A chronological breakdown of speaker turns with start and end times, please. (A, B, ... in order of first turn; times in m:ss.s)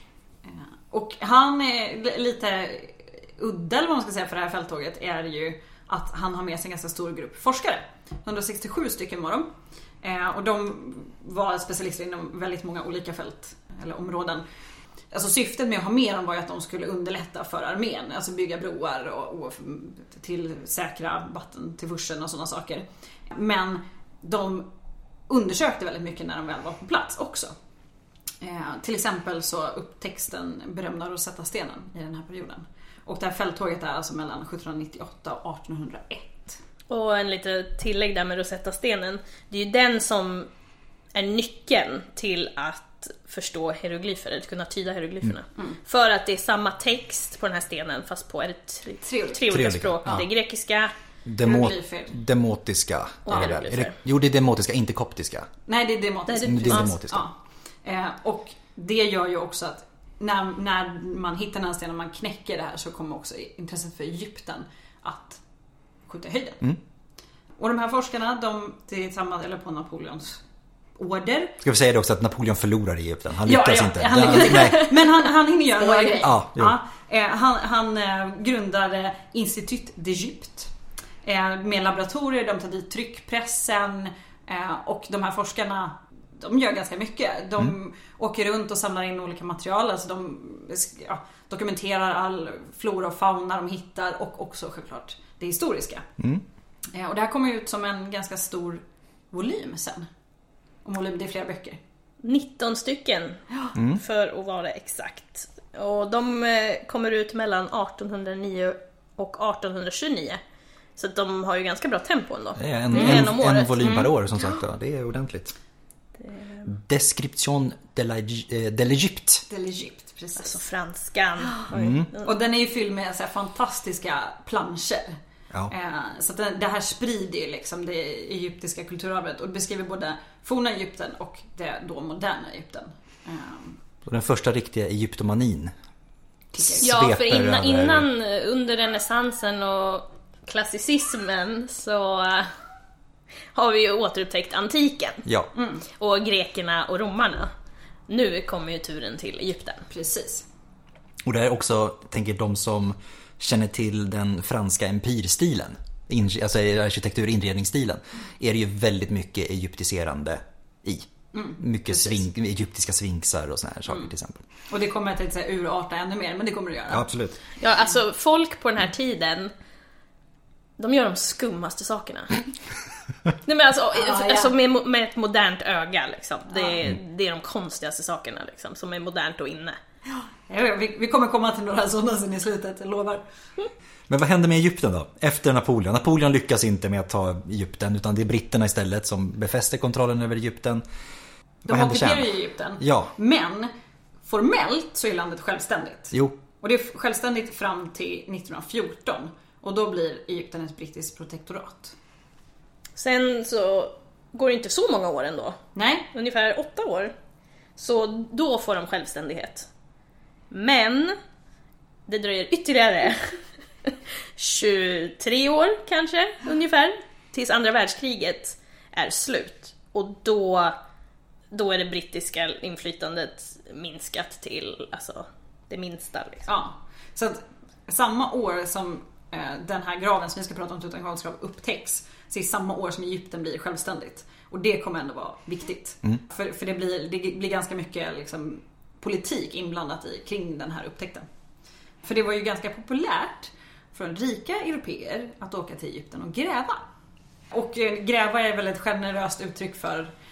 0:00.5-0:09.5 A
0:10.0-0:14.4 A
0:15.1-0:24.7 A
0:25.3-0:27.5 A
0:28.4-0:36.6 A
0:36.9-0:40.5 B
0:41.1-0:50.9 B
0:49.0-0:49.5 A
0:49.5-0:50.3 C
0:51.3-0:55.5 C
0:51.4-0:52.2 A
0:53.3-0:54.0 B
0:55.7-1:05.4 A
0:56.3-0:57.0 B
0:56.4-0:57.3 C
1:06.1-1:06.7 A
1:07.6-1:10.4 A
1:11.0-1:11.6 A
1:11.6-1:15.0 C
1:13.4-1:20.7 A
1:14.2-1:14.9 B
1:16.2-1:16.8 C
1:21.2-1:36.1 A
1:36.9-1:40.1 A
1:40.8-1:41.8 A
1:42.2-1:50.4 B
1:43.8-1:44.0 C
1:51.0-1:54.6 B
1:52.6-1:55.5 C
1:52.9-1:53.3 A
1:56.2-1:56.6 B
1:56.7-1:59.5 C
1:59.5-2:00.6 A
2:00.4-2:02.3 B
2:01.4-2:13.8 A
2:01.7-2:02.1 C
2:14.0-2:15.7 C
2:16.5-2:16.9 A
2:16.6-2:18.1 C
2:16.8-2:22.5 B
2:23.5-2:25.2 B
2:25.6-2:25.9 A
2:26.0-2:27.5 B
2:28.1-2:29.9 B
2:29.9-2:30.5 A
2:31.2-2:44.4 C
2:41.3-2:42.2 A
2:44.7-2:47.1 A
2:46.9-2:47.4 C
2:47.6-2:49.5 B
2:50.8-2:52.4 B
2:53.4-2:59.8 B
2:54.0-2:54.5 A
2:56.5-2:56.8 A
3:00.1-3:03.2 A
3:04.1-3:10.8 C
3:11.6-3:13.7 A
3:11.7-3:13.1 C
3:14.2-3:22.0 A
3:23.0-3:25.6 B
3:25.8-3:26.1 A
3:26.1-3:27.1 B
3:27.8-3:29.7 B
3:30.5-3:31.2 B
3:32.1-3:40.7 B
3:41.5-3:46.5 B
3:46.5-4:01.3 A
4:02.0-4:06.8 A
4:07.5-4:10.1 A